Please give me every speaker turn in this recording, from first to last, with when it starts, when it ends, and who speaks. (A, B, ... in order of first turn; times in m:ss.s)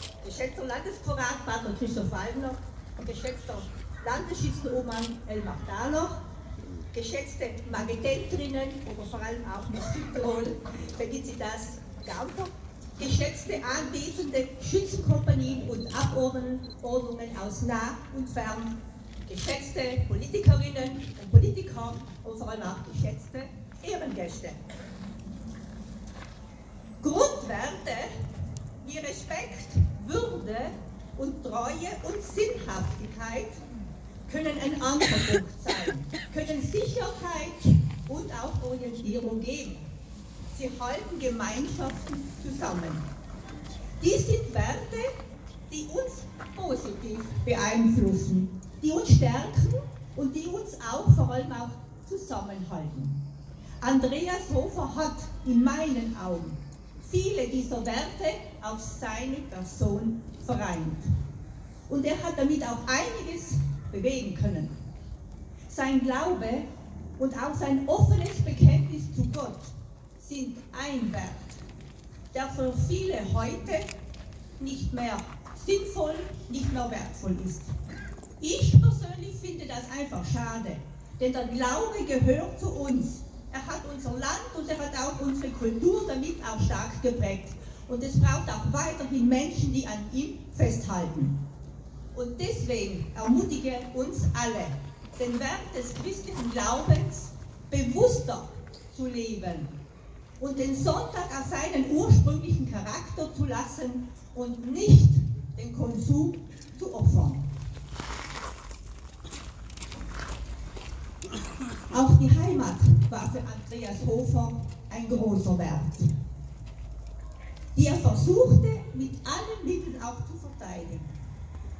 0:00.2-0:06.2 A
0:06.9-0:24.6 A
0:27.0-0:28.1 A
0:28.8-0:33.6 A
0:34.3-0:39.9 A
0:40.5-0:43.1 A
0:44.0-0:45.2 A
0:45.7-0:53.2 A
0:53.8-1:01.1 A
1:01.9-1:04.8 A
1:05.7-1:06.6 A
1:07.2-1:11.6 A
1:12.3-1:13.9 A
1:14.6-1:17.7 A
1:18.4-1:31.4 A
1:32.1-1:39.7 A
1:40.4-1:47.5 A
1:51.9-1:56.1 A
1:57.7-2:01.1 A